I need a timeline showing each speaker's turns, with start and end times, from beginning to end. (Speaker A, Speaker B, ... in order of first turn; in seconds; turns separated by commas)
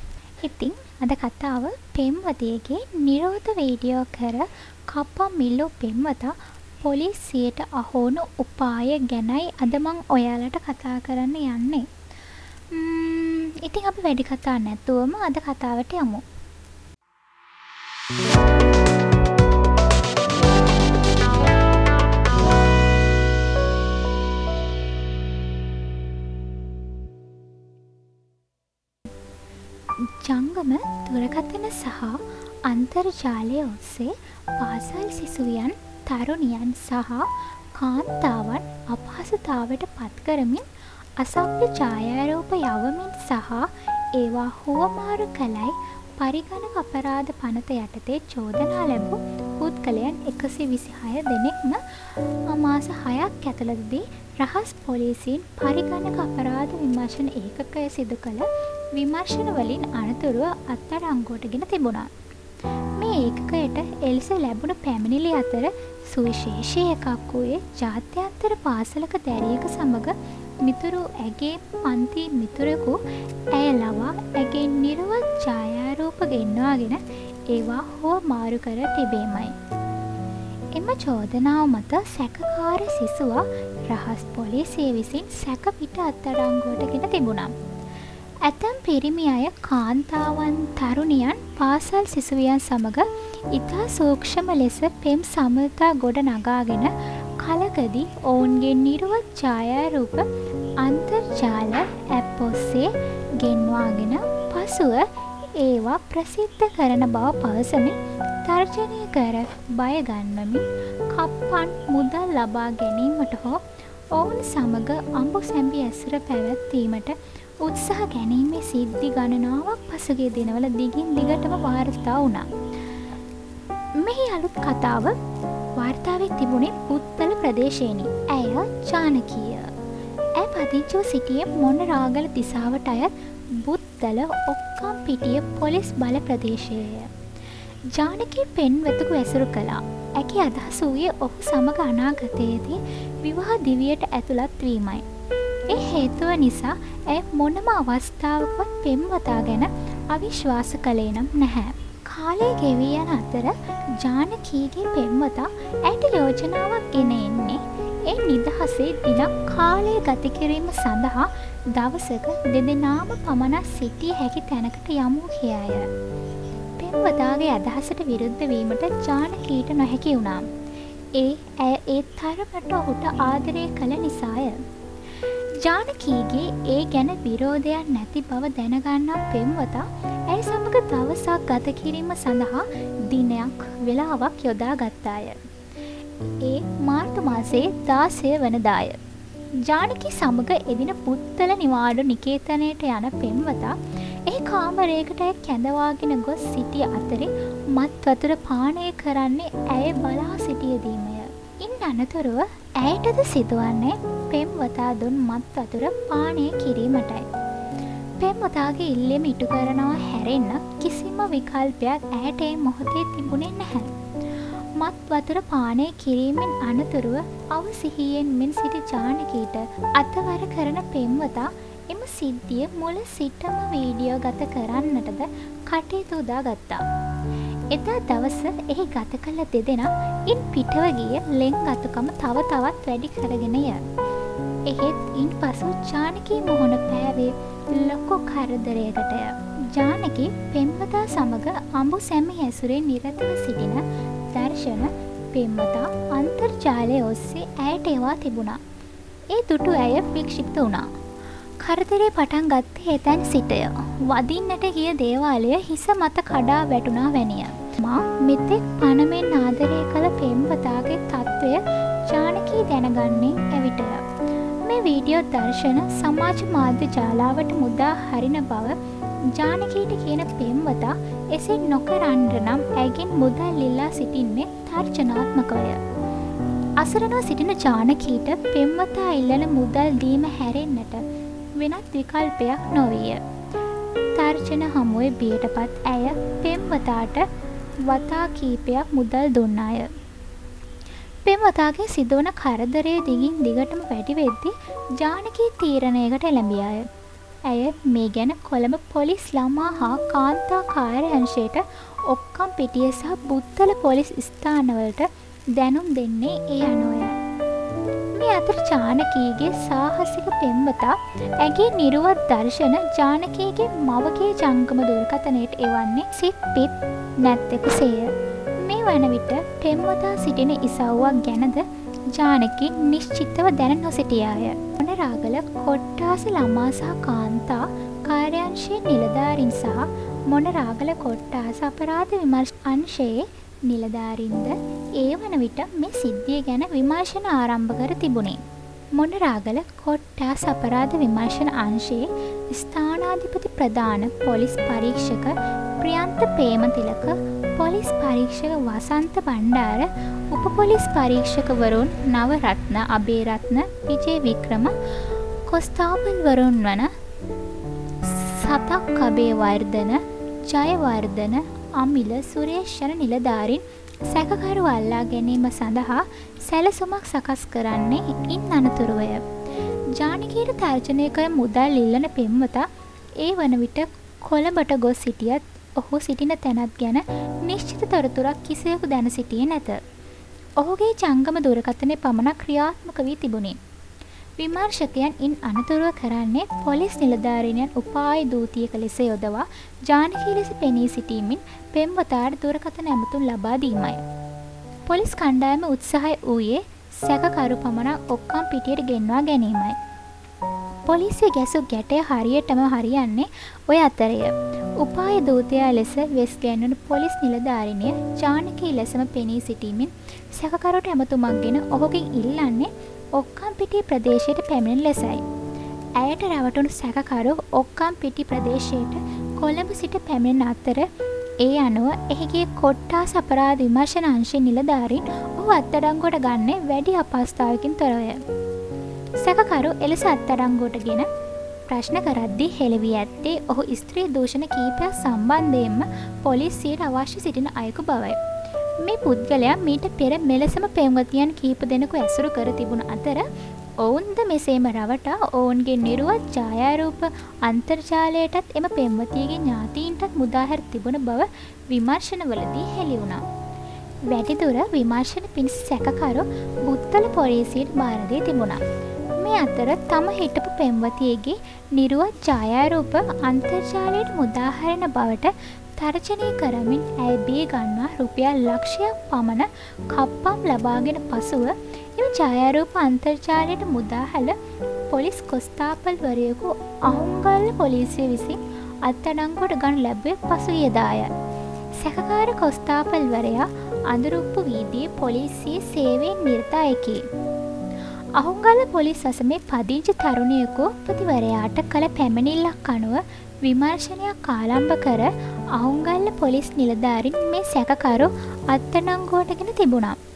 Speaker A: 0.4-11.9, Speaker A: 12.7-16.2, Speaker A: 30.0-62.1, Speaker A: 63.0-73.0, Speaker A: 73.5-79.5, Speaker A: 80.7-87.5, Speaker A: 88.4-100.3, Speaker A: 100.8-113.6, Speaker A: 114.1-122.5, Speaker A: 124.0-125.2, Speaker A: 125.8-129.7, Speaker A: 130.3-137.1, Speaker A: 137.9-145.1, Speaker A: 145.7-165.9, Speaker A: 166.8-170.4, Speaker A: 171.1-174.6, Speaker A: 175.6-185.5, Speaker A: 186.4-189.0, Speaker A: 189.6-207.3, Speaker A: 208.2-213.9, Speaker A: 214.8-226.8, Speaker A: 227.7-233.8, Speaker A: 234.7-248.6, Speaker A: 249.3-250.9, Speaker A: 251.6-264.0, Speaker A: 264.6-268.8, Speaker A: 269.3-275.8, Speaker A: 276.8-283.2, Speaker A: 284.1-287.2, Speaker A: 287.8-289.9, Speaker A: 291.2-296.9, Speaker A: 297.4-307.2, Speaker A: 308.1-338.4, Speaker A: 338.9-354.7, Speaker A: 355.4-356.9, Speaker A: 358.0-369.2, Speaker A: 369.9-372.6, Speaker A: 373.2-379.8, Speaker A: 380.6-383.6, Speaker A: 384.4-394.0, Speaker A: 394.9-399.8, Speaker A: 400.9-415.2, Speaker A: 416.0-420.9, Speaker A: 421.4-428.2, Speaker A: 429.2-431.1, Speaker A: 431.7-438.2, Speaker A: 438.8-443.2, Speaker A: 443.8-453.2, Speaker A: 454.1-458.6, Speaker A: 459.2-474.4, Speaker A: 474.9-481.1, Speaker A: 481.8-487.0, Speaker A: 488.2-499.9